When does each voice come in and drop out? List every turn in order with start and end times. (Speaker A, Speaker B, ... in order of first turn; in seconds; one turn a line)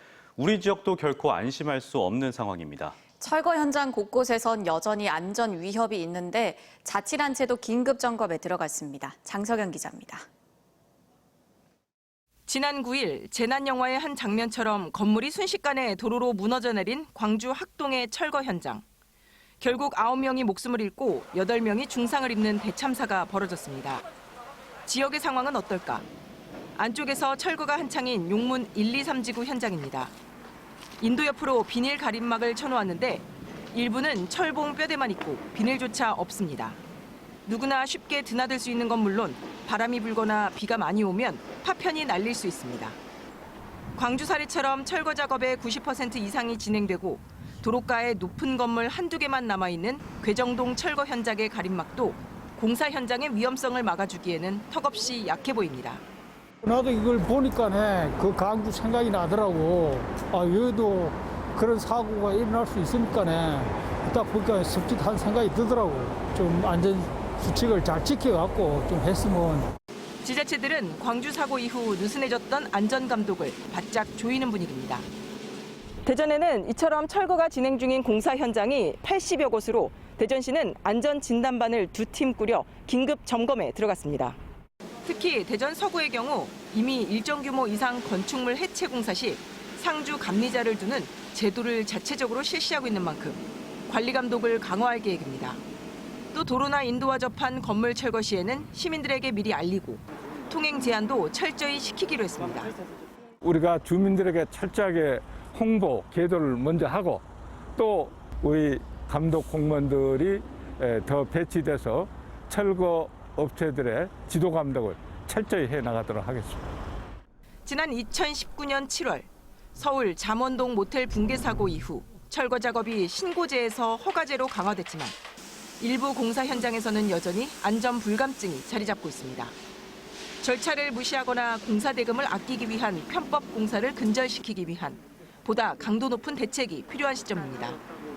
Speaker A: 0.4-3.0
Speaker B: 3.2-10.2
Speaker C: 12.5-18.8
Speaker C: 19.6-24.0
Speaker C: 24.9-26.0
Speaker C: 26.8-30.1
Speaker C: 31.0-36.8
Speaker C: 37.5-43.0
Speaker C: 44.0-56.0
Speaker D: 56.6-69.7
Speaker C: 70.2-75.1
Speaker C: 76.0-84.4
Speaker C: 85.0-95.6
Speaker C: 96.3-102.7
Speaker E: 103.4-107.2
Speaker E: 107.8-116.7
Speaker C: 117.7-125.2
Speaker C: 125.8-129.5
Speaker C: 130.4-137.8